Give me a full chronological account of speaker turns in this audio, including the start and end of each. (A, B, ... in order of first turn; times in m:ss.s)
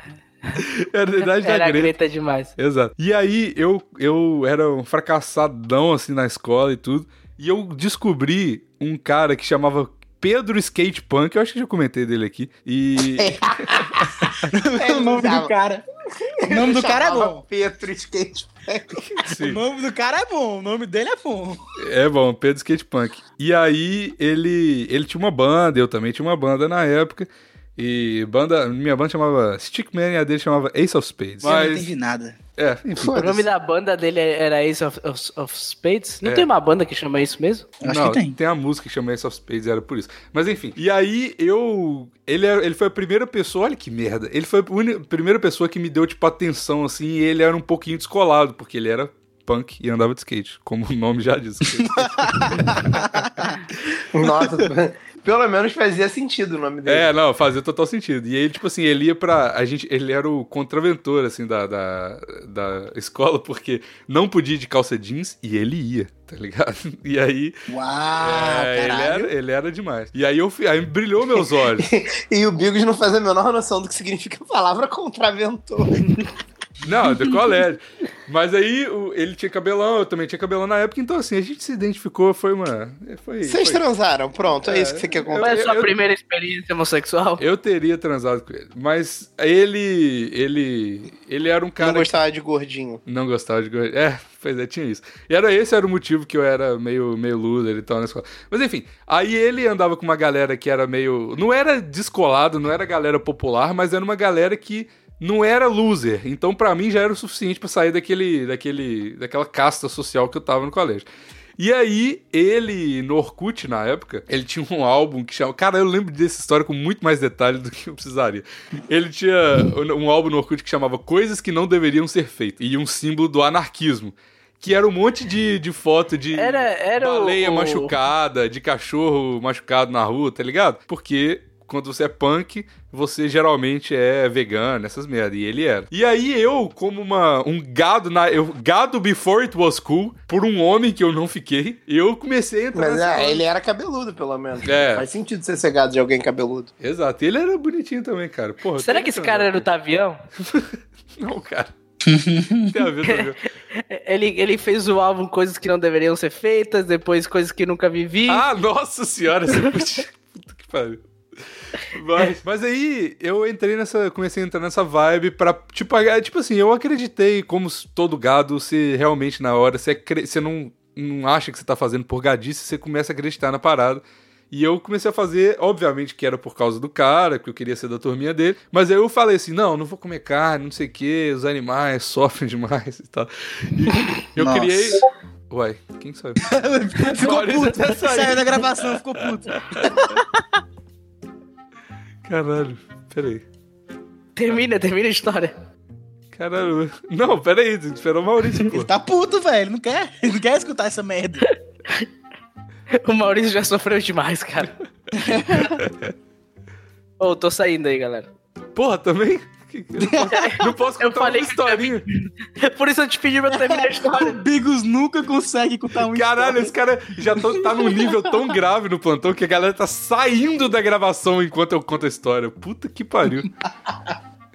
0:00.6-0:01.9 A
0:01.2-0:02.5 B
0:02.6-0:14.5 A
0:13.2-0:15.5 C
0:14.5-0:15.8 D
0:16.3-0:19.0 C
0:16.4-0:17.4 D
0:18.9-0:19.6 A
0:19.4-0:21.6 D
0:21.8-0:31.9 A
0:31.4-0:32.4 D
0:32.6-0:33.4 A
0:33.0-0:33.4 C
0:33.1-0:37.7 B
0:37.8-0:38.4 D
0:37.8-0:53.2 A
0:51.8-0:53.6 D
0:54.1-0:57.1 C
0:56.8-1:07.5 A
1:07.7-1:09.3 D
1:08.2-1:11.9 A
1:11.8-1:16.3 C
1:16.8-1:23.8 A
1:23.4-1:25.7 C
1:24.6-1:25.9 A
1:25.4-1:27.4 B
1:27.4-1:32.2 A
1:31.8-1:33.0 C
1:33.0-1:51.0 A
1:51.6-2:23.4 A
2:06.4-2:07.9 B
2:22.7-2:26.7 C
2:24.6-2:25.0 A
2:26.8-2:29.6 A
2:28.8-2:30.2 B
2:30.4-2:31.7 A
2:32.0-2:32.7 D
2:32.6-2:33.4 A
2:33.0-2:38.4 B
2:38.3-2:41.0 A
2:41.6-3:06.4 A
3:04.4-3:05.0 D
3:06.4-3:10.3 D
3:07.0-3:10.0 A
3:12.2-3:13.4 A
3:14.4-3:15.5 B
3:16.3-3:18.9 A
3:18.7-3:21.4 D
3:21.4-3:22.1 B
3:22.9-3:24.7 B
3:25.2-3:25.6 D
3:25.3-3:25.8 B
3:25.8-3:26.1 A
3:27.2-3:28.3 B
3:28.7-3:32.0 A
3:30.0-3:30.4 D
3:30.2-3:34.4 B
3:33.5-3:36.7 D
3:36.1-3:43.5 A
3:37.3-3:38.4 D